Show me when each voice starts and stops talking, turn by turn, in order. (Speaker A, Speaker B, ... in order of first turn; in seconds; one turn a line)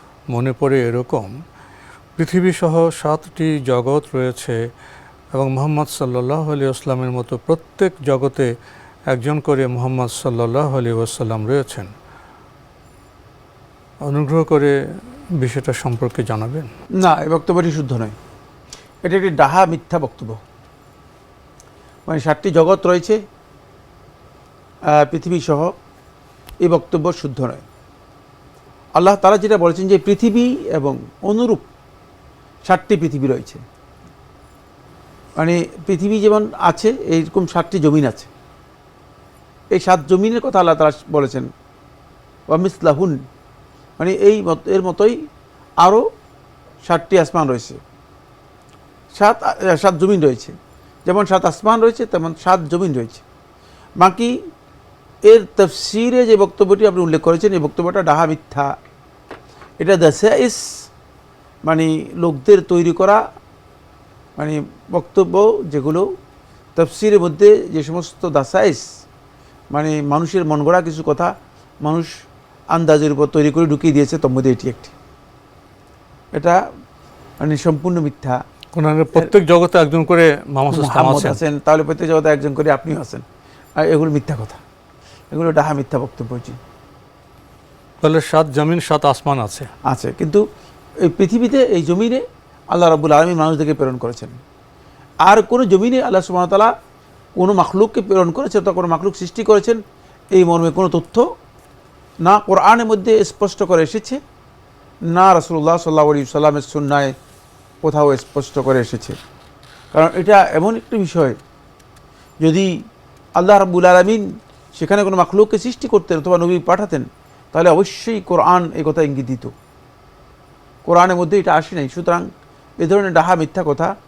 Speaker A: 0.3-1.3
Speaker A: 2.2-4.5
Speaker A: 5.3-8.5
Speaker A: 9.1-11.9
Speaker A: 14.1-14.7
Speaker A: 15.4-16.7
Speaker B: 17.0-18.1
Speaker B: 19.0-20.4
Speaker B: 22.1-23.2
Speaker B: 24.9-25.7
Speaker B: 26.6-27.6
Speaker B: 29.0-31.7
Speaker B: 32.6-33.6
Speaker B: 35.4-38.3
Speaker B: 39.7-41.5
Speaker B: 42.5-43.2
Speaker B: 44.0-45.1
Speaker B: 46.8-47.8
Speaker B: 49.1-50.5
Speaker B: 51.0-53.2
Speaker B: 54.0-54.3
Speaker B: 55.3-58.7
Speaker B: 59.8-60.6
Speaker B: 61.6-63.2
Speaker B: 64.4-66.0
Speaker B: 66.8-68.8
Speaker B: 69.7-71.3
Speaker B: 71.8-72.1
Speaker B: 72.7-74.9
Speaker B: 76.3-76.6
Speaker B: 77.4-78.4
Speaker A: 78.7-81.4
Speaker B: 80.7-83.2
Speaker B: 83.8-84.6
Speaker B: 85.3-86.6
Speaker A: 88.0-89.7
Speaker B: 89.9-90.4
Speaker B: 91.0-94.3
Speaker B: 95.2-96.7
Speaker B: 97.4-99.8
Speaker B: 100.3-101.2
Speaker B: 102.2-104.2
Speaker B: 105.1-107.1
Speaker B: 107.8-109.2
Speaker B: 109.9-111.3
Speaker B: 112.4-112.7
Speaker B: 113.4-114.2
Speaker B: 114.8-119.5
Speaker B: 120.8-122.2
Speaker B: 122.8-123.9